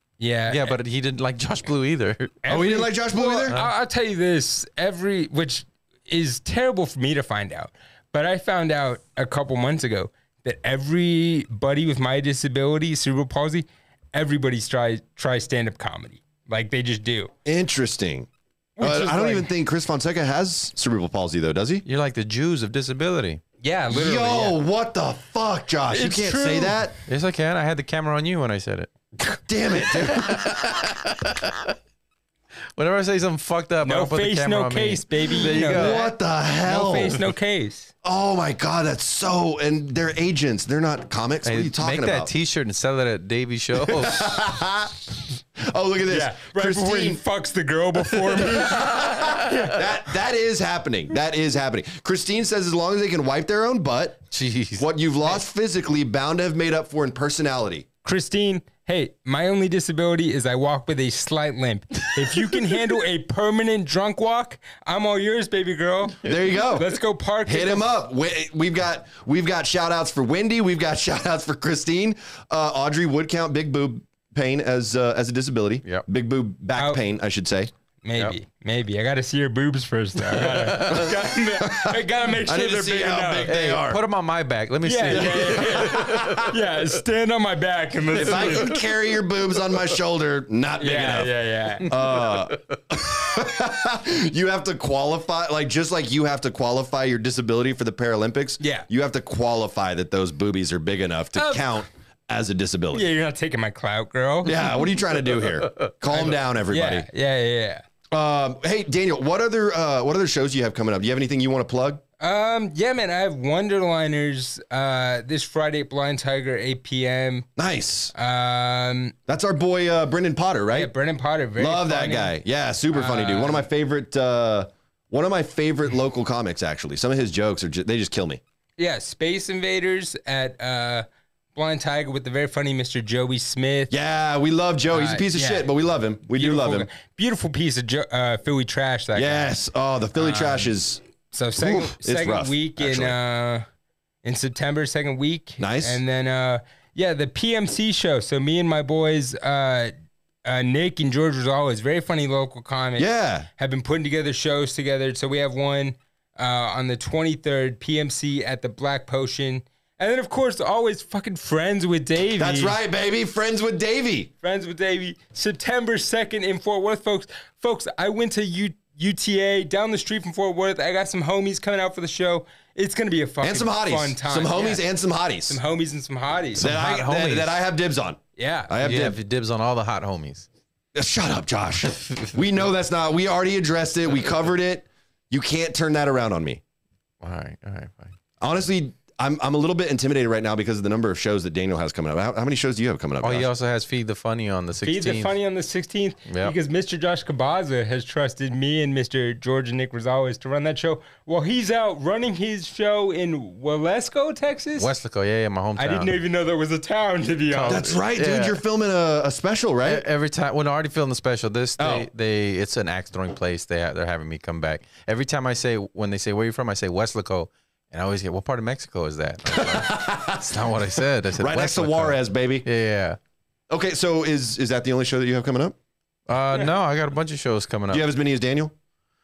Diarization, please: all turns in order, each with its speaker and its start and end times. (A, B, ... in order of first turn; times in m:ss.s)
0:00.2-0:00.8 A
0:00.5-0:02.4 B
0:02.4-0:17.3 A
0:02.5-0:03.5 C
0:17.4-0:18.3 C
0:18.8-0:19.5 A
0:18.8-0:21.8 C
0:21.8-0:23.4 B
0:23.6-0:24.6 A
0:23.9-0:26.9 C
0:25.9-0:26.8 A
0:27.0-0:28.9 B
0:29.3-0:31.0 C
0:29.7-0:31.7 B
0:32.8-0:36.1 B
0:33.8-0:36.0 A
0:35.4-0:37.2 C
0:36.6-0:37.9 A
0:38.0-0:42.3 C
0:41.4-0:44.4 B
0:43.8-0:47.2 C
0:46.1-0:49.8 A
0:48.2-0:54.2 C
0:54.3-0:54.9 B
0:54.8-0:57.8 C
0:58.0-1:07.9 A
1:06.2-1:06.9 C
1:07.4-1:17.7 C
1:16.8-1:17.0 A
1:18.0-1:23.6 A
1:20.3-1:21.1 B
1:20.9-1:24.0 C
1:23.4-1:26.5 B
1:24.8-1:28.8 A
1:25.1-1:26.5 C
1:28.1-1:43.1 C
1:28.4-1:28.8 B
1:30.8-1:32.2 A
1:38.6-1:38.9 A
1:41.3-1:41.8 A
1:42.9-1:44.8 A
1:44.4-1:47.1 C
1:46.1-1:47.8 A
1:48.1-1:52.0 C
1:52.2-1:57.5 A
1:57.6-1:58.1 C
1:58.1-1:59.1 A
1:59.3-2:00.9 C
2:00.7-2:02.4 A
2:01.6-2:08.4 C
2:02.9-2:03.7 A
2:08.8-2:13.9 A
2:13.9-2:16.9 C
2:14.9-2:15.7 A
2:16.3-2:19.5 A
2:19.1-2:21.0 C
2:20.2-2:20.7 A
2:21.3-2:23.6 A
2:21.6-2:23.2 C
2:24.2-2:29.9 A
2:25.6-2:26.0 C
2:30.4-2:42.8 A
2:33.0-2:33.5 C
2:42.4-2:44.3 C
2:44.4-2:54.8 A
2:53.4-2:55.6 C
2:55.5-2:56.7 A
2:56.6-2:59.2 C
2:56.6-2:57.5 B
2:58.4-2:58.7 A
2:58.8-3:00.4 B
3:00.9-3:06.6 C
3:07.2-3:08.1 B
3:08.4-3:13.5 C
3:13.2-3:15.3 B
3:14.8-3:24.9 A
3:16.3-3:16.5 B
3:24.8-3:26.1 B
3:25.8-3:27.9 A
3:27.5-3:28.6 B
3:27.7-3:30.1 C
3:29.8-3:43.2 B
3:31.8-3:32.1 C
3:39.5-3:40.6 C
3:41.4-3:42.6 C
3:43.7-3:45.7 C
3:46.3-3:48.0 B
3:47.9-3:48.7 C